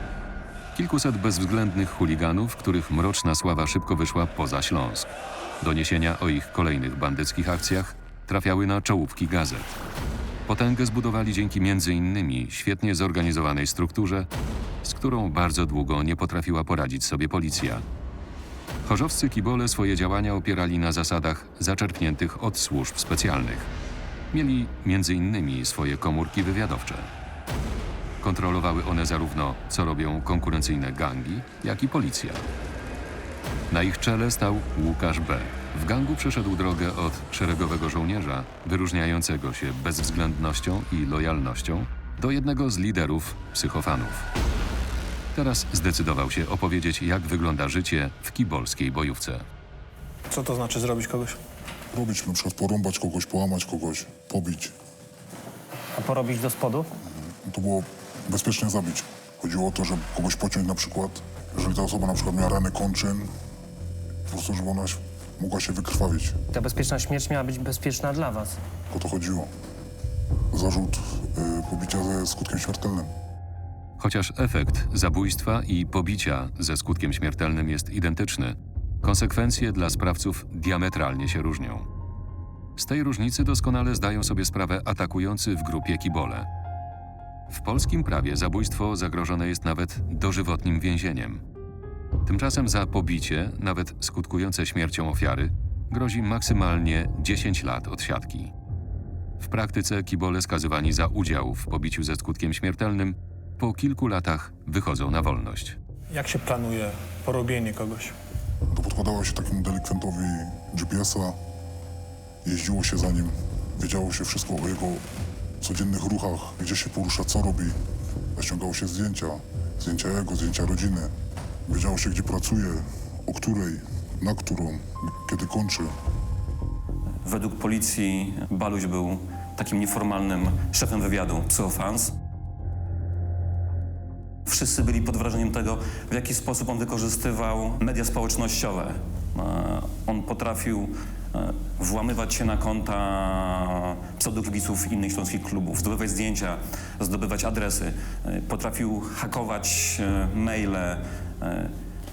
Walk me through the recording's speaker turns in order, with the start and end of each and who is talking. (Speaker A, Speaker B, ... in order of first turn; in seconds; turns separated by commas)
Speaker A: 0.8-5.1, Speaker A: 5.6-9.8, Speaker A: 10.5-14.3, Speaker A: 14.8-17.9, Speaker A: 18.9-23.7, Speaker A: 24.3-27.1, Speaker A: 28.2-32.5, Speaker A: 33.7-44.2, Speaker A: 45.3-49.5, Speaker B: 50.3-51.4, Speaker C: 51.9-54.7, Speaker D: 56.0-56.8, Speaker C: 57.5-63.3, Speaker C: 64.3-66.4, Speaker D: 66.5-68.5, Speaker C: 68.9-69.5, Speaker C: 70.5-73.1, Speaker A: 74.0-81.9, Speaker A: 82.8-86.5, Speaker A: 87.5-91.4, Speaker A: 92.3-98.5, Speaker A: 99.4-105.8, Speaker B: 106.1-108.2, Speaker C: 108.7-111.4, Speaker C: 112.4-115.0, Speaker C: 115.6-117.8, Speaker C: 118.4-121.1, Speaker C: 121.7-125.9, Speaker E: 127.2-132.1, Speaker E: 134.5-151.8